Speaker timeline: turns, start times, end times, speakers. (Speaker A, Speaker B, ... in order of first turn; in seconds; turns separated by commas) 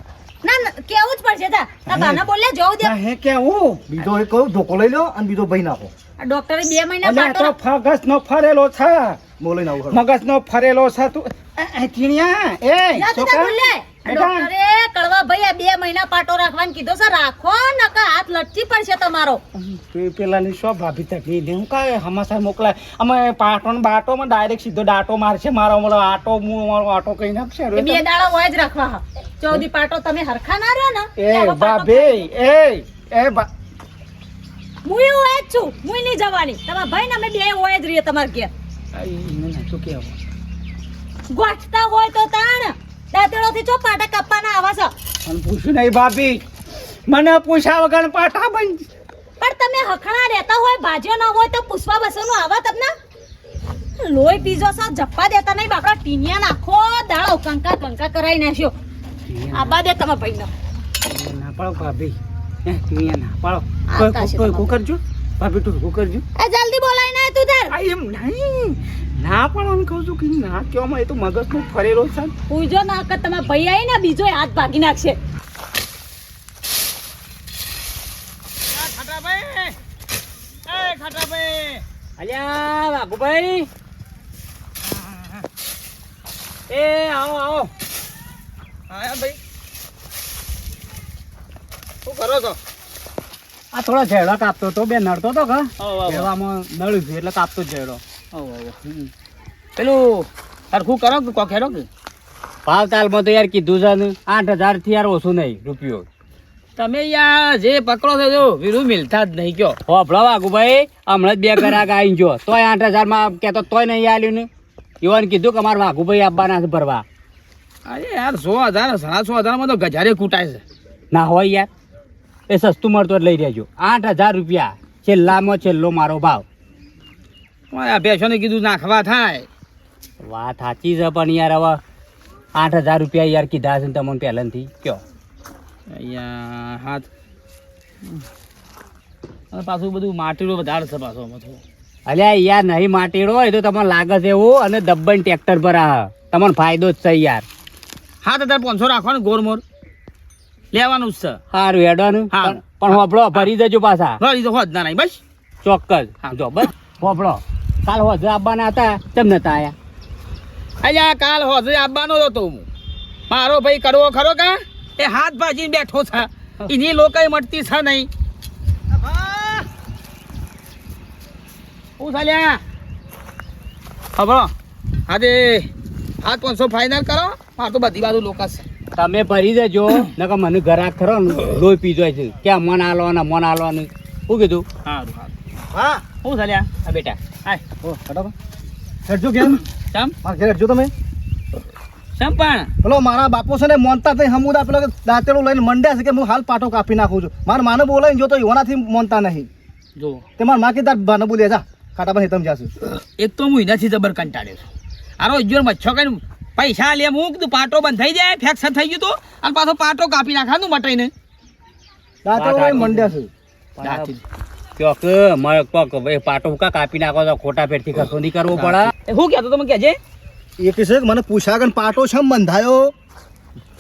Speaker A: 0.4-3.0, Speaker B: 1.9-2.2, Speaker C: 2.8-3.8, Speaker B: 3.9-5.9, Speaker A: 6.2-7.5, Speaker C: 7.0-9.2, Speaker B: 9.4-10.0, Speaker C: 9.9-14.5, Speaker A: 12.9-19.4, Speaker C: 19.6-28.0, Speaker A: 27.7-32.3, Speaker C: 31.2-33.5, Speaker A: 34.8-38.5, Speaker C: 38.9-40.2, Speaker A: 41.3-44.9, Speaker C: 45.2-46.4, Speaker C: 47.1-48.9, Speaker A: 49.4-52.9, Speaker A: 54.0-58.7, Speaker C: 59.3-59.7, Speaker A: 59.5-60.5, Speaker C: 61.0-66.2, Speaker A: 63.9-64.7, Speaker A: 66.3-67.7, Speaker C: 67.7-72.3, Speaker A: 72.5-75.2, Speaker D: 78.7-79.7, Speaker D: 80.7-81.8, Speaker E: 82.2-83.7, Speaker E: 86.7-87.7, Speaker D: 88.9-89.4, Speaker D: 92.0-92.6, Speaker E: 93.7-98.0, Speaker D: 95.8-96.3, Speaker D: 98.3-99.1, Speaker D: 99.8-101.8, Speaker E: 102.7-106.0, Speaker D: 106.8-109.8, Speaker E: 109.9-114.5, Speaker E: 115.0-117.0, Speaker D: 117.8-120.6, Speaker E: 121.1-121.7, Speaker E: 122.5-126.4, Speaker D: 127.7-129.5, Speaker E: 130.2-131.8, Speaker E: 132.5-135.0, Speaker D: 135.9-137.1, Speaker D: 139.5-141.6, Speaker E: 142.1-147.4, Speaker D: 148.2-149.6, Speaker D: 150.7-151.4, Speaker E: 151.5-154.2, Speaker D: 152.3-153.5, Speaker D: 154.2-155.2, Speaker E: 155.6-159.7, Speaker D: 160.8-162.6, Speaker D: 163.3-168.1, Speaker B: 168.9-169.7, Speaker D: 172.0-172.6, Speaker D: 174.2-174.5, Speaker D: 175.1-175.7, Speaker D: 176.2-178.6, Speaker E: 179.0-184.7, Speaker D: 184.8-185.3, Speaker B: 185.7-186.0, Speaker D: 186.2-187.6, Speaker E: 186.9-187.1, Speaker B: 187.8-188.3, Speaker B: 189.1-189.6, Speaker B: 190.2-190.9, Speaker D: 192.2-192.7, Speaker B: 192.8-199.5, Speaker D: 200.0-200.2, Speaker B: 200.4-202.7, Speaker D: 203.2-204.6, Speaker D: 205.2-211.1, Speaker B: 212.2-213.3, Speaker E: 212.3-213.1, Speaker E: 213.8-214.1, Speaker D: 213.8-214.2, Speaker E: 214.8-218.9, Speaker D: 218.6-220.0, Speaker B: 220.6-222.9